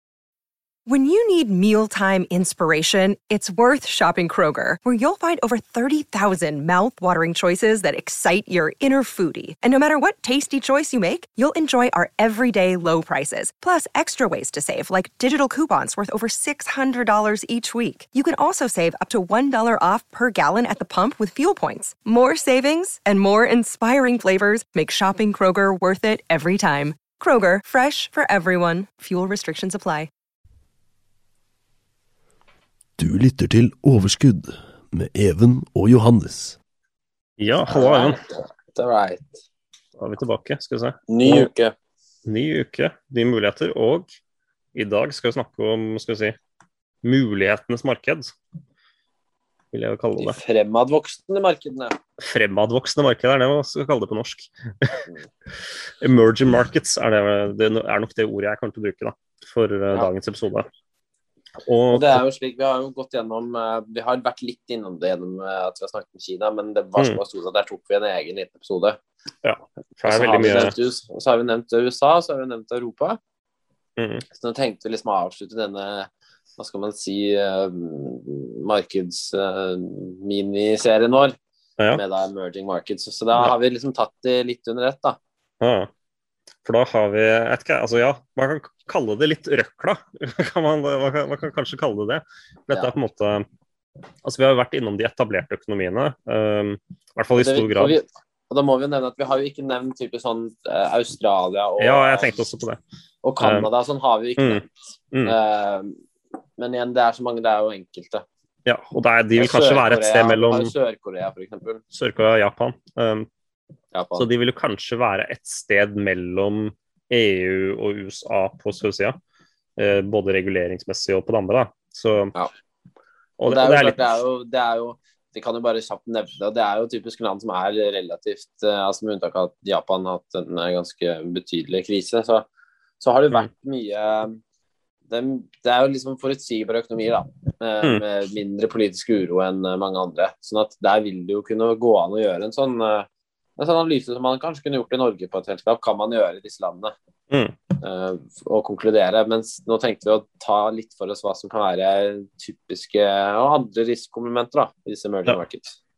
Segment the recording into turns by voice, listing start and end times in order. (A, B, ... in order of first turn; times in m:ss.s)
0:00.9-0:30.1 A
0:33.0-0:36.6 B
0:37.4-0:38.2 C
0:37.7-0:39.4 D
0:40.0-0:41.5 C
0:41.1-0:41.7 D
0:42.3-0:44.1 C
0:44.8-0:46.4 C
0:47.0-0:48.3 C
0:49.7-0:50.4 C
0:50.2-0:52.0 D
0:52.2-0:55.1 C
0:56.0-1:00.7 C
1:01.6-1:02.2 C
1:01.9-1:09.0 D
1:09.4-1:10.8 C
1:10.1-1:13.2 D
1:14.0-1:14.2 C
1:14.3-1:21.4 D
1:21.9-1:25.2 D
1:25.6-1:25.9 C
1:26.6-1:33.5 C
1:34.2-1:38.0 C
1:37.4-1:42.4 D
1:41.8-1:42.8 C
1:43.2-1:44.7 D
1:43.4-1:43.7 C
1:44.4-1:45.4 C
1:45.3-1:46.0 D
1:46.6-1:48.2 D
1:48.7-1:50.7 C
1:49.4-1:51.8 D
1:51.9-1:53.3 C
1:53.9-1:54.3 D
1:54.2-1:59.2 C
1:59.8-2:02.3 C
2:03.4-2:04.0 C
2:03.5-2:12.5 D
2:13.0-2:14.4 D
2:15.1-2:26.9 D
2:27.8-2:35.7 D